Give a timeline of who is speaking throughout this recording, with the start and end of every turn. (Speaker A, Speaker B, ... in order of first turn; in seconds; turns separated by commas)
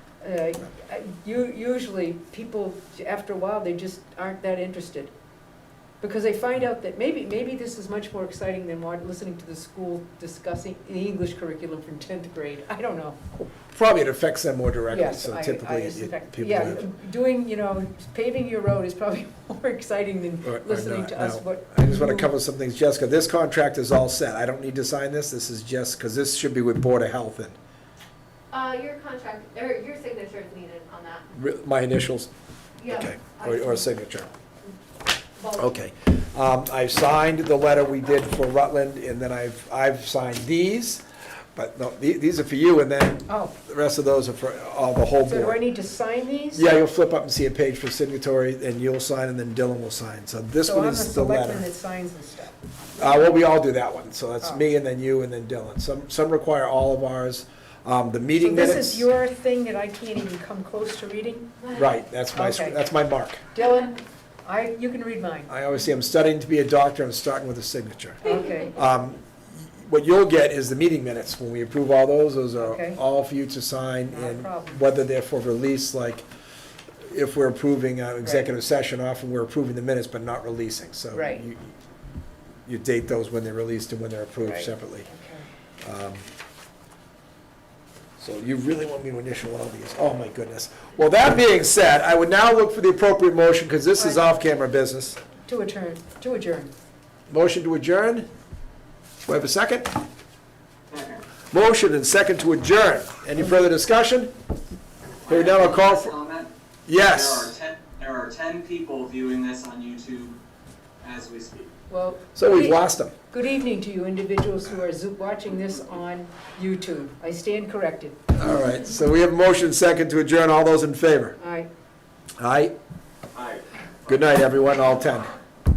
Speaker A: 0.2-5.1, Speaker A: 6.0-13.2, Speaker B: 13.5-16.9, Speaker A: 14.9-22.3, Speaker B: 20.4-27.6, Speaker C: 28.5-31.3, Speaker B: 31.3-32.3, Speaker C: 32.8-33.9, Speaker B: 32.9-34.3, Speaker C: 35.4-35.8, Speaker B: 35.6-41.0, Speaker B: 41.5-45.6, Speaker A: 43.3-43.5, Speaker A: 45.2-46.7, Speaker B: 46.5-51.7, Speaker A: 50.6-53.5, Speaker B: 53.0-59.1, Speaker A: 58.4-61.5, Speaker C: 61.6-61.9, Speaker B: 61.7-63.4, Speaker A: 62.3-62.8, Speaker A: 63.5-65.5, Speaker B: 65.5-76.2, Speaker A: 68.2-68.8, Speaker C: 68.3-68.7, Speaker A: 72.6-73.0, Speaker A: 74.1-74.9, Speaker B: 77.1-81.7, Speaker A: 78.2-78.5, Speaker A: 81.1-81.5, Speaker B: 82.7-85.1, Speaker A: 84.4-85.5, Speaker B: 85.8-86.2, Speaker B: 88.2-95.2, Speaker A: 94.0-94.3, Speaker A: 95.4-96.7, Speaker B: 97.3-98.3, Speaker B: 99.3-99.9, Speaker D: 100.9-101.2, Speaker B: 101.5-104.3, Speaker D: 105.2-110.4, Speaker B: 105.3-106.1, Speaker B: 106.9-107.5, Speaker D: 111.0-111.7, Speaker A: 111.9-118.2, Speaker B: 112.4-113.1, Speaker B: 118.3-121.4, Speaker A: 121.4-121.7, Speaker B: 122.4-122.7, Speaker D: 123.3-123.6, Speaker B: 124.1-125.3